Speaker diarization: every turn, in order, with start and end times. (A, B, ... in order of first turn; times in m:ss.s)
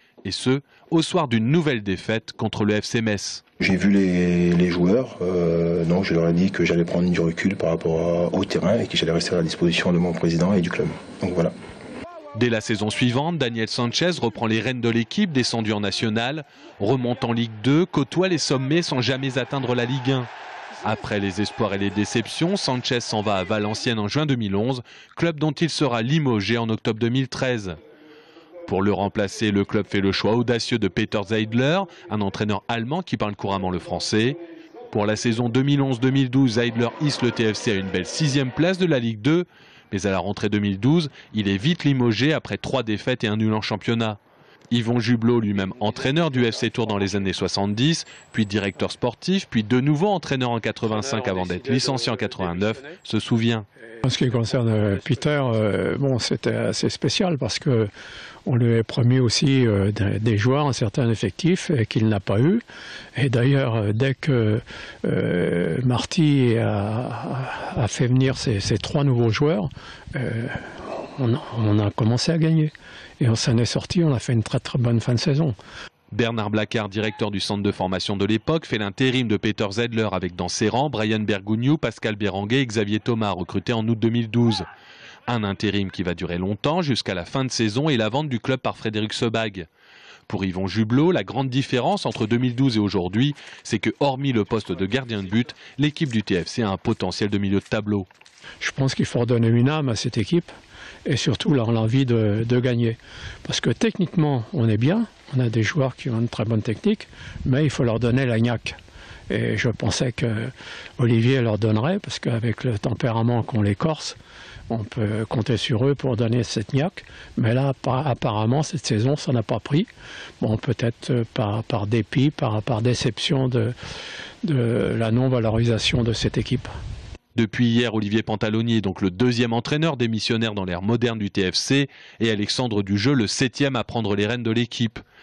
0:00.2-0:03.4 A
0:03.6-0:11.5 B
0:12.3-0:20.3 A
0:20.8-0:27.8 A
0:28.6-0:34.4 A
0:34.9-0:44.2 A
0:44.7-0:53.6 A
0:54.0-0:57.9 C
0:58.5-1:02.6 C
1:03.2-1:15.6 C
1:16.1-1:24.6 A
1:25.3-1:29.7 A
1:30.3-1:38.1 A
1:38.6-1:40.5 C
1:41.1-1:48.8 C
1:49.3-1:54.2 C
1:54.7-1:59.9 C
2:00.4-2:03.7 C
2:04.4-2:06.7 C
2:07.4-2:15.0 A